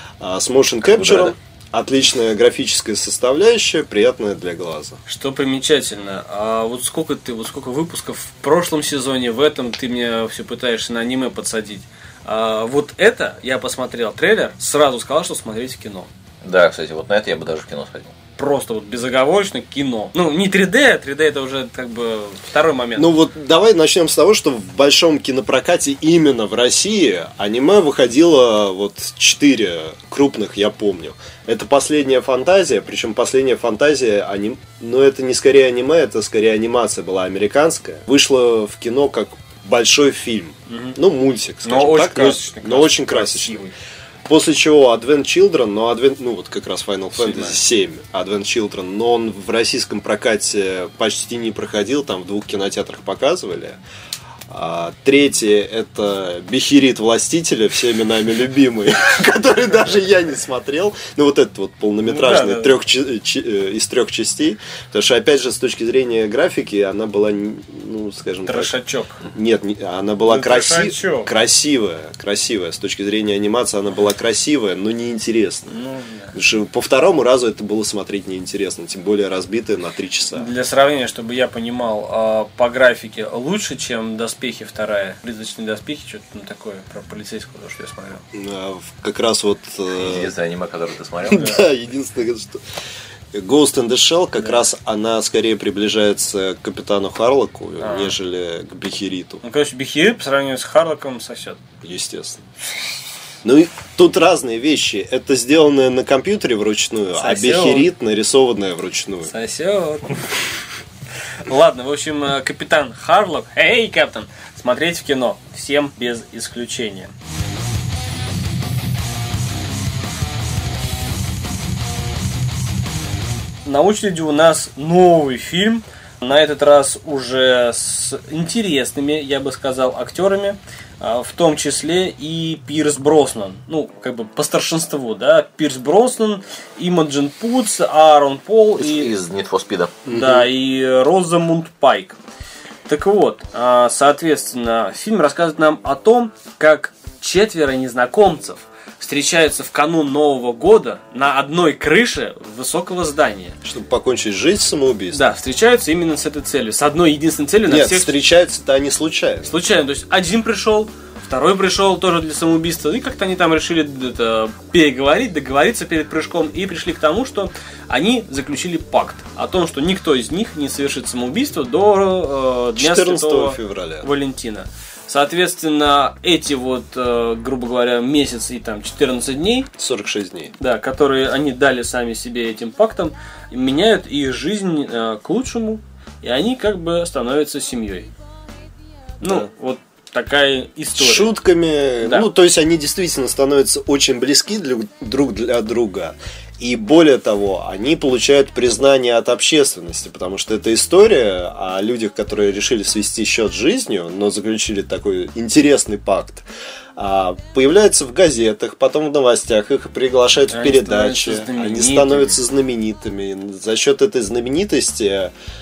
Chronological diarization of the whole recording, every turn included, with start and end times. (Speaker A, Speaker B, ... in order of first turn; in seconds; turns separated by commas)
Speaker A: 0.2-5.0, Speaker B: 0.9-1.3, Speaker C: 5.1-16.1, Speaker B: 16.4-18.1, Speaker C: 18.4-23.1, Speaker A: 23.0-43.6, Speaker C: 40.7-41.0, Speaker C: 41.6-43.7, Speaker A: 44.2-53.8, Speaker C: 47.1-47.6, Speaker A: 54.5-68.7, Speaker C: 62.0-62.8, Speaker C: 68.5-69.2, Speaker A: 69.2-75.7, Speaker C: 70.2-71.3, Speaker C: 75.7-76.3, Speaker A: 76.3-80.5, Speaker C: 80.3-88.2, Speaker A: 88.3-90.3, Speaker B: 89.9-91.6, Speaker A: 91.3-92.6, Speaker A: 93.3-99.4, Speaker C: 97.8-98.1, Speaker C: 99.4-101.6, Speaker A: 101.8-102.4, Speaker A: 103.4-109.3, Speaker C: 107.1-107.9, Speaker C: 109.3-110.4, Speaker C: 111.4-117.1, Speaker C: 123.6-139.1, Speaker B: 138.8-140.0, Speaker C: 140.1-142.2, Speaker A: 140.1-140.5, Speaker C: 142.9-153.6, Speaker A: 153.6-155.2, Speaker C: 155.1-158.2, Speaker A: 157.7-159.5, Speaker C: 159.4-179.7, Speaker A: 172.8-174.1, Speaker A: 179.8-180.5, Speaker C: 180.6-188.1, Speaker C: 189.2-191.3, Speaker A: 189.2-189.5, Speaker A: 191.0-215.3, Speaker C: 192.0-192.3, Speaker C: 210.5-212.4